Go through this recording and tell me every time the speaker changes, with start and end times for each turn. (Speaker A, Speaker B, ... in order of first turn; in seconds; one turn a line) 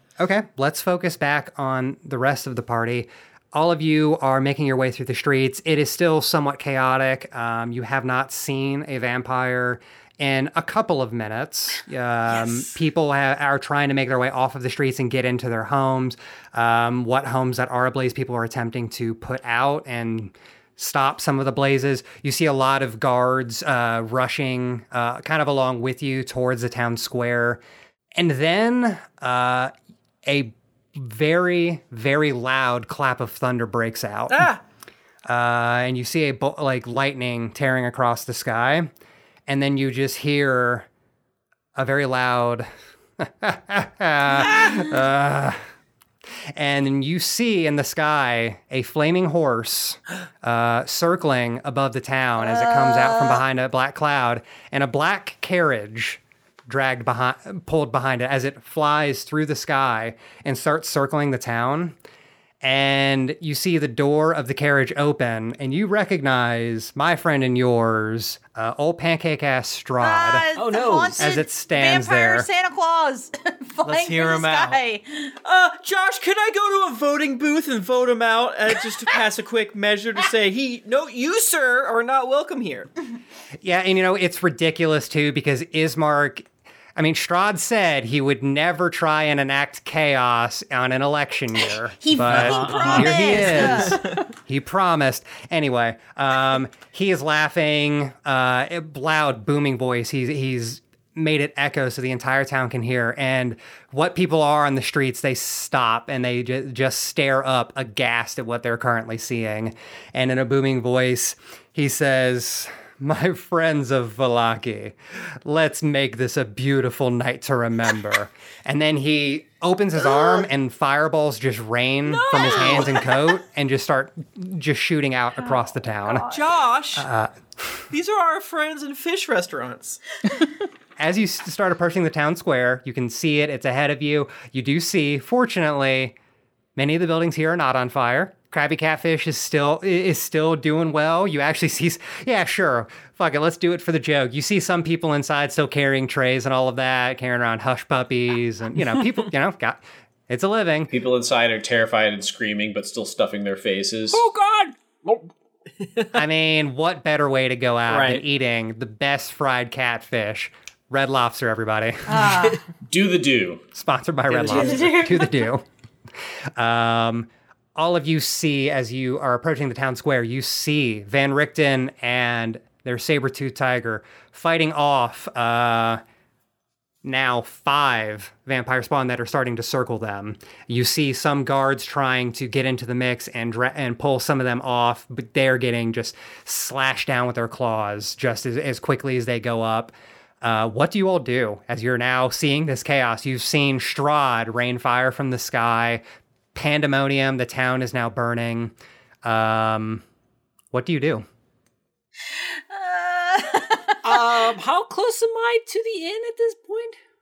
Speaker A: 0.2-27.6
Speaker A: 28.1-29.7
Speaker A: 30.2-34.5
Speaker B: 34.3-34.6
Speaker A: 35.2-38.9
Speaker A: 39.5-40.9
Speaker A: 41.8-42.7
Speaker A: 43.2-45.6
Speaker A: 46.5-62.0
Speaker C: 52.4-53.4
Speaker A: 62.6-70.4
Speaker C: 70.0-75.3
Speaker D: 70.5-71.2
Speaker A: 71.2-72.5
Speaker B: 73.8-74.8
Speaker B: 75.4-82.9
Speaker A: 83.6-126.3
Speaker C: 92.0-94.0
Speaker D: 92.3-93.7
Speaker B: 93.8-94.1
Speaker B: 122.1-123.1
Speaker C: 125.4-126.4
Speaker B: 126.2-127.1
Speaker A: 126.9-127.8
Speaker B: 127.9-130.0
Speaker A: 131.0-136.1
Speaker A: 136.8-150.9
Speaker E: 150.9-154.2
Speaker D: 154.1-155.3
Speaker A: 156.1-162.3
Speaker B: 157.9-158.2
Speaker C: 162.1-162.6
Speaker E: 162.9-163.6
Speaker A: 163.7-165.6
Speaker B: 164.3-165.1
Speaker C: 164.7-165.2
Speaker A: 166.6-176.0
Speaker A: 177.0-196.0
Speaker A: 196.5-200.0
Speaker A: 200.7-201.2
Speaker C: 202.7-204.4
Speaker D: 204.0-207.0